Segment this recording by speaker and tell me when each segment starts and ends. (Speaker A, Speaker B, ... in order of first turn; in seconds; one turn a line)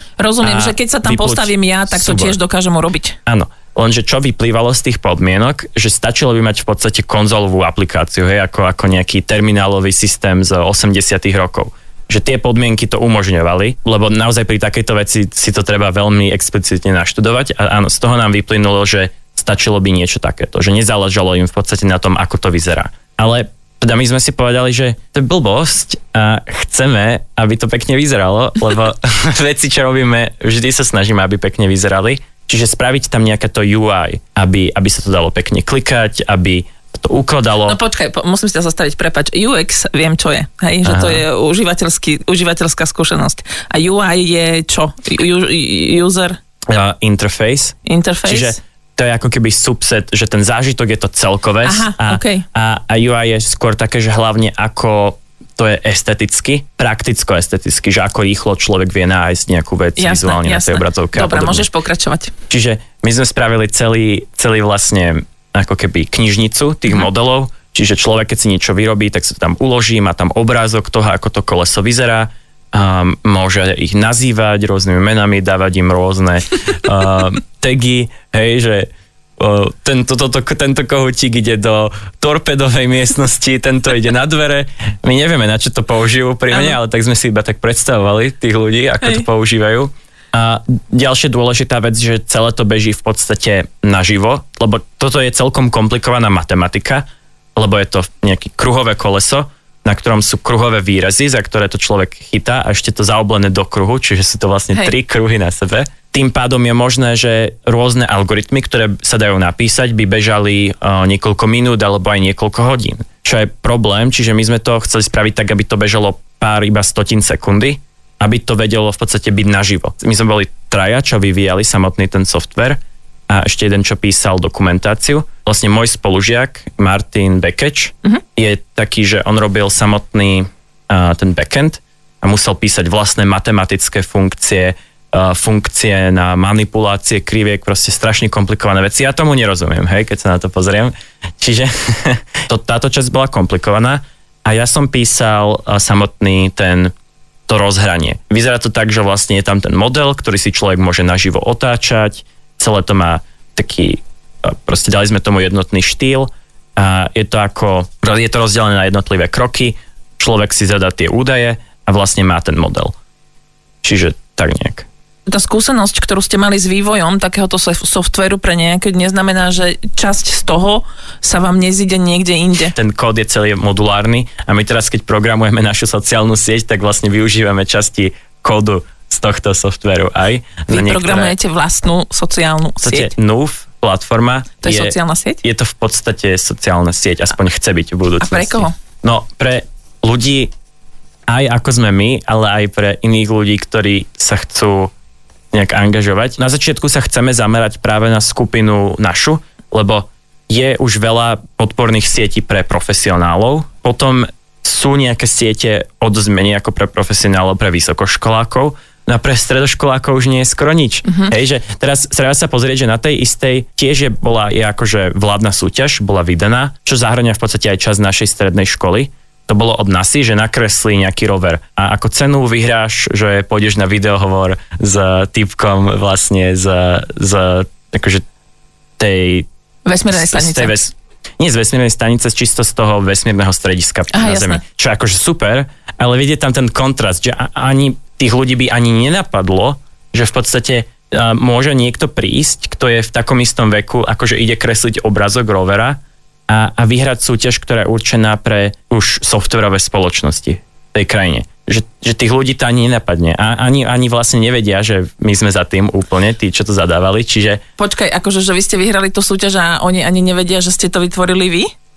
Speaker A: 0.2-3.2
Speaker B: 0.4-2.4
Speaker B: 3.2-37.8
Speaker A: 37.7-46.4
Speaker B: 40.8-41.2
Speaker B: 46.7-61.7
Speaker A: 47.8-48.6
Speaker A: 51.6-52.5
Speaker A: 60.0-62.3
Speaker B: 62.5-146.9
Speaker B: 147.5-162.9
Speaker B: 163.8-164.8
Speaker A: 165.3-172.7
Speaker B: 172.7-181.3
Speaker A: 180.7-183.1
Speaker B: 182.8-190.5
Speaker A: 184.6-185.4
Speaker A: 188.2-188.7
Speaker B: 191.3-194.9
Speaker B: 195.5-228.2
Speaker A: 211.0-211.3
Speaker B: 229.0-229.5
Speaker A: 229.8-230.8
Speaker B: 230.1-257.6
Speaker A: 234.1-234.6
Speaker A: 257.8-261.7